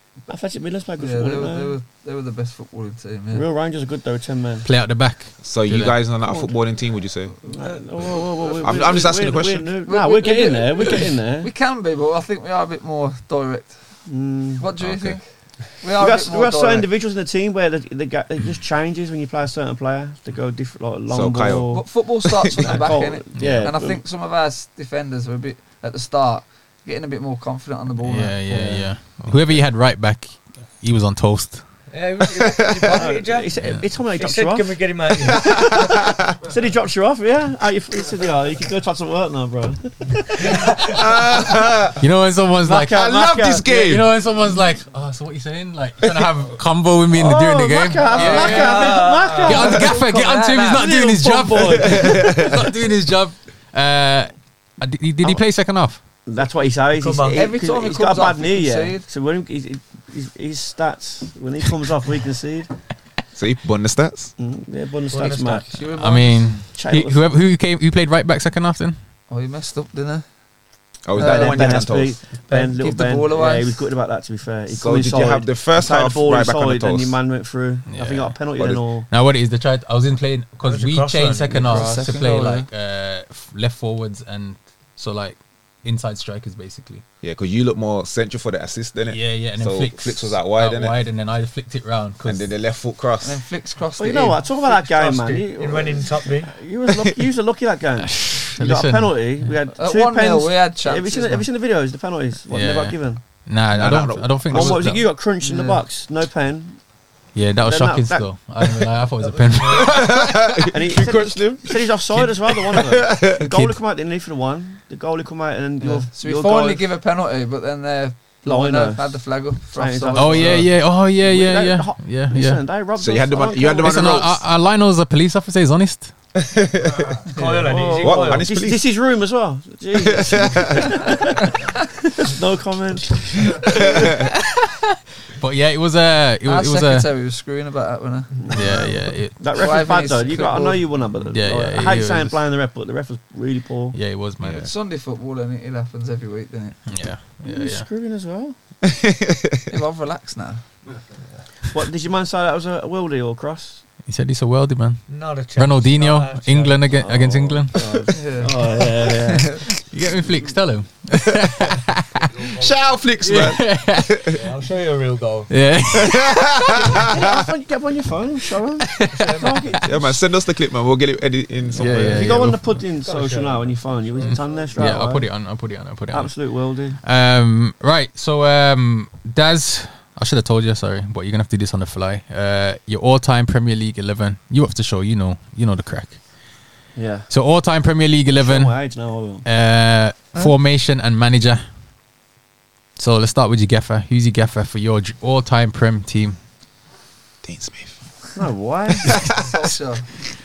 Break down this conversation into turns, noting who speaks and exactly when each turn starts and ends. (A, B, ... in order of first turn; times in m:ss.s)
0:00.3-0:01.7 A
0:01.0-0:03.5 B
0:03.3-0:04.7 A
0:04.6-0:06.0 C
0:05.4-0:07.3 D
0:06.2-0:06.6 A
0:07.5-0:11.5 A
0:08.6-0:09.7 D
0:09.8-0:16.9 B
0:14.0-0:14.7 A
0:14.8-0:15.2 D
0:16.0-0:21.9 A
0:21.1-0:22.8 D
0:21.7-0:28.8 B
0:22.5-0:24.0 A
0:23.3-0:23.7 C
0:28.0-0:31.6 C
0:31.9-0:35.7 E
0:32.5-0:32.9 D
0:32.9-0:41.0 A
0:40.8-0:42.0 D
0:42.0-0:43.1 C
0:42.6-0:44.0 A
0:42.8-0:44.1 D
0:43.6-0:56.0 C
0:47.1-0:50.0 A
0:48.0-0:50.8 B
0:48.3-0:49.8 E
0:50.7-0:52.5 A
0:51.8-0:52.6 D
0:56.2-1:02.7 A
0:56.9-0:57.4 E
0:57.3-0:59.1 B
1:03.3-1:04.3 D
1:04.4-1:05.8 A
1:05.1-1:05.6 E
1:05.7-1:06.6 B
1:05.9-1:09.0 C
1:06.7-1:07.2 A
1:09.3-1:10.2 B
1:11.0-1:12.2 D
1:11.1-1:12.0 B
1:11.1-1:19.1 A
1:12.5-1:13.8 B
1:14.7-1:17.2 D
1:17.9-1:18.4 C
1:18.6-1:18.8 D
1:19.1-1:27.0 C
1:20.6-1:21.7 E
1:21.5-1:22.2 A
1:21.6-1:22.7 B
1:27.2-1:31.0 D
1:29.1-1:32.5 C
1:32.2-1:33.4 D
1:33.2-1:34.4 B
1:34.0-1:43.2 A
1:34.5-1:36.6 E
1:38.1-1:39.5 C
1:39.7-1:41.5 B
1:42.5-1:45.1 C
1:43.7-1:44.9 D
1:44.5-1:46.9 A
1:45.4-1:45.8 B
1:47.3-1:50.0 C
1:47.6-1:48.3 A
1:49.2-1:50.0 E
1:49.7-1:53.7 D
1:50.7-1:56.8 A
1:55.8-2:00.6 B
1:58.4-2:04.3 A
2:00.1-2:02.6 C
2:03.0-2:04.4 D
2:03.8-2:06.1 C
2:06.4-2:07.2 D
2:07.3-2:08.5 E
2:07.4-2:07.7 B
2:07.6-2:14.2 A
2:08.0-2:08.9 D
2:09.9-2:11.0 D
2:13.7-2:14.2 D
2:15.4-2:17.1 C
2:16.4-2:18.5 B
2:18.4-2:24.0 A
2:18.5-2:19.4 C
2:19.5-2:20.9 B
2:21.2-2:22.4 C
2:23.9-2:24.7 C
2:24.4-2:24.7 D
2:24.6-2:26.9 B
2:26.9-2:27.9 C
2:27.4-2:28.6 A
2:28.8-2:29.6 D
2:29.7-2:30.6 B
2:31.7-2:33.8 A
2:34.0-2:38.0 C
2:35.1-2:36.9 E
2:36.9-2:39.7 A
2:38.1-2:39.6 B
2:39.7-2:42.5 C
2:42.4-2:44.5 D
2:43.2-2:44.3 C
2:44.3-2:45.5 E
2:45.5-2:47.0 C
2:45.9-2:47.4 D
2:47.0-2:50.2 A
2:48.8-2:49.7 C
2:49.0-2:49.8 E
2:49.8-2:52.5 D
2:51.7-2:52.8 C
2:51.8-2:55.3 A
2:53.0-2:54.4 E
2:54.2-3:06.2 C
2:56.1-2:57.0 A
3:06.9-3:07.3 A
3:07.3-3:08.8 C
3:08.3-3:09.4 A
3:09.4-3:11.6 C
3:13.0-3:16.4 C
3:17.4-3:17.9 D
3:18.4-3:19.2 A
3:19.4-3:20.1 B